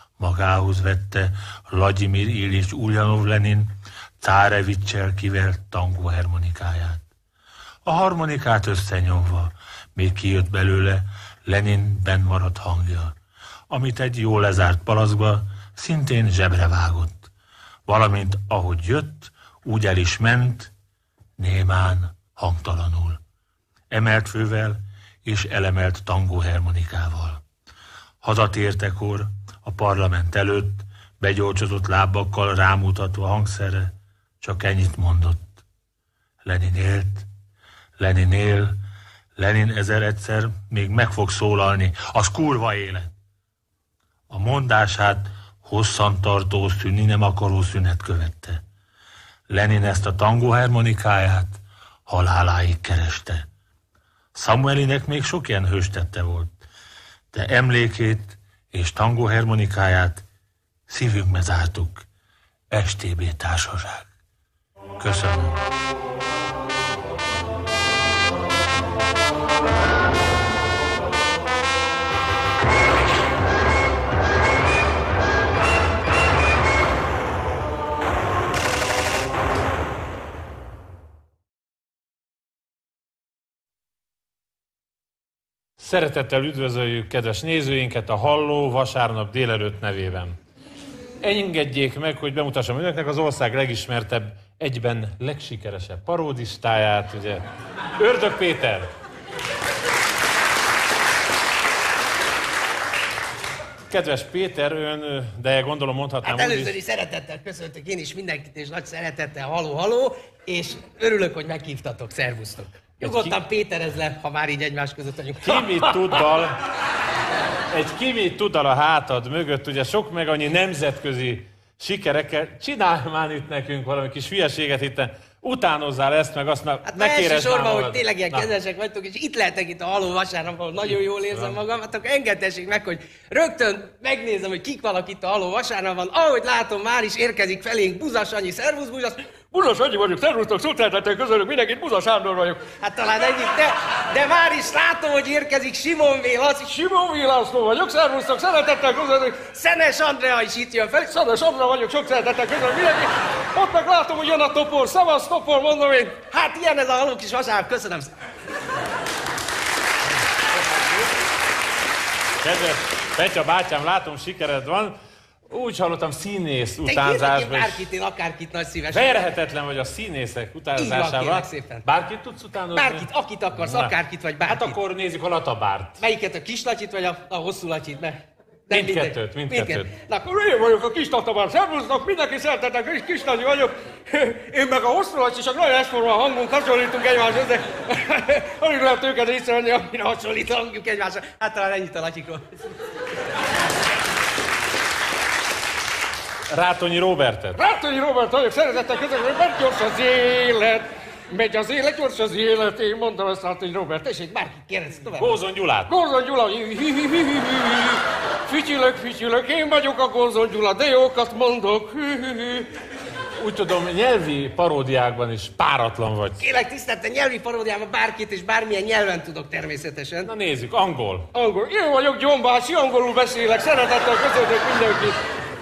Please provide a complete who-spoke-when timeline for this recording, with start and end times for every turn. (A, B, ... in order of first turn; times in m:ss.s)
0:00.2-0:03.7 A
0:04.2-0:07.0 A
0:07.8-0:13.1 A
0:13.7-0:17.3 A
0:17.9-0:20.7 A
0:21.4-0:23.2 A
0:23.9-0:27.4 A
0:28.2-0:35.4 A
0:36.4-0:37.3 A
0:38.0-0:38.8 A
0:39.4-0:43.1 A
0:44.3-0:48.6 A
0:49.5-0:53.4 A
0:54.3-0:56.5 A
0:57.3-1:00.2 A
1:00.9-1:02.0 A
1:02.7-1:04.1 A
1:05.0-1:05.6 A
1:25.8-1:30.4 B
1:31.2-1:37.4 B
1:38.0-1:38.9 B
1:43.9-1:46.8 B
1:46.2-1:55.6 C
1:53.0-1:53.4 B
1:55.4-1:56.6 B
1:57.7-2:08.5 B
2:06.8-2:19.2 C
2:19.5-2:22.6 D
2:22.8-2:26.7 C
2:26.6-2:29.4 D
2:29.5-2:31.1 C
2:31.0-2:36.2 D
2:36.3-2:38.1 C
2:42.4-2:45.0 B
2:45.5-2:47.9 B
2:46.8-2:49.1 C
2:48.9-2:56.0 B
2:50.8-2:51.8 C
2:52.7-2:54.8 C
2:56.0-2:59.8 C
2:58.7-2:59.9 B
3:00.1-3:10.0 D
3:09.9-3:12.7 C
3:16.5-3:17.6 B
3:17.6-3:24.7 D
3:24.5-3:25.4 C
3:25.2-3:25.9 B
3:25.9-3:32.7 D
3:33.4-3:36.4 B
3:36.4-3:40.3 C
3:40.2-3:41.3 B
3:41.3-3:45.2 D